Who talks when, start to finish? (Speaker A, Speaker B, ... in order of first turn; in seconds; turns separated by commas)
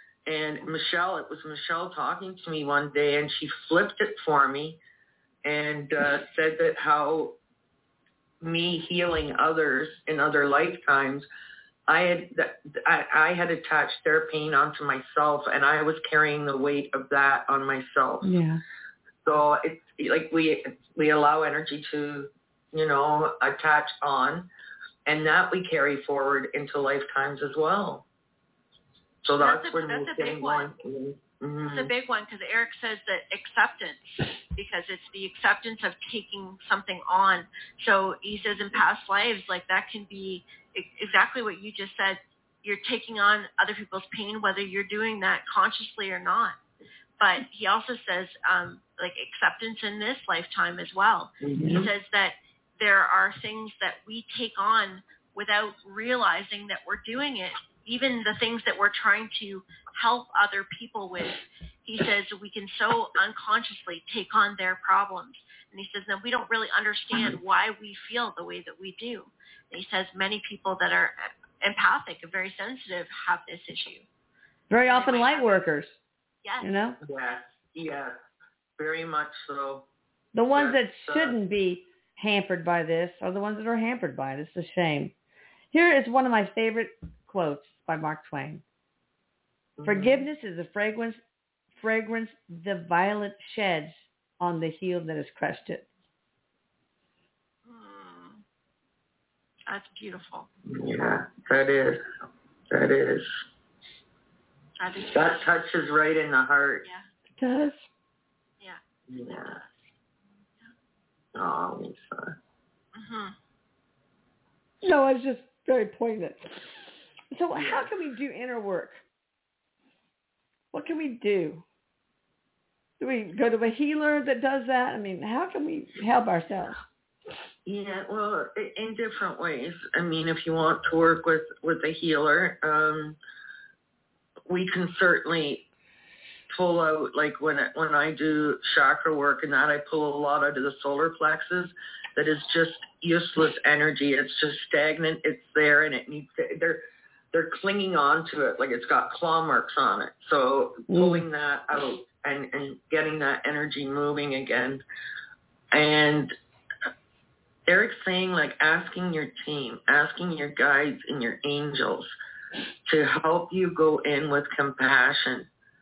Speaker A: 0.2-4.8, Speaker A: 5.4-7.4, Speaker A: 8.4-11.3, Speaker A: 11.9-18.3, Speaker B: 18.2-18.6, Speaker A: 19.2-24.5, Speaker A: 25.1-28.0, Speaker A: 29.2-31.9, Speaker C: 29.4-30.7, Speaker C: 31.7-46.5, Speaker C: 47.2-74.0, Speaker A: 51.4-51.9, Speaker B: 74.7-76.0, Speaker C: 74.8-75.6, Speaker C: 76.4-76.7, Speaker B: 76.6-77.0, Speaker A: 77.0-78.1, Speaker A: 78.8-79.9, Speaker B: 80.3-85.1, Speaker A: 80.5-81.3, Speaker B: 85.7-88.6, Speaker A: 89.8-90.2, Speaker B: 89.8-91.2, Speaker B: 91.8-95.8, Speaker C: 97.7-98.4, Speaker C: 99.7-100.5, Speaker A: 100.7-102.0, Speaker A: 102.7-103.4, Speaker C: 104.8-105.5, Speaker A: 105.1-106.9, Speaker B: 107.4-107.9, Speaker A: 109.1-109.6, Speaker A: 111.3-112.3, Speaker C: 112.9-113.3, Speaker B: 114.8-116.7, Speaker B: 117.3-119.0, Speaker A: 117.5-117.9, Speaker B: 120.7-121.6, Speaker B: 123.0-126.8, Speaker A: 127.7-133.2, Speaker A: 134.5-135.6, Speaker A: 136.5-154.8, Speaker B: 150.9-151.2, Speaker A: 155.7-156.3, Speaker A: 157.7-162.1, Speaker A: 162.9-165.5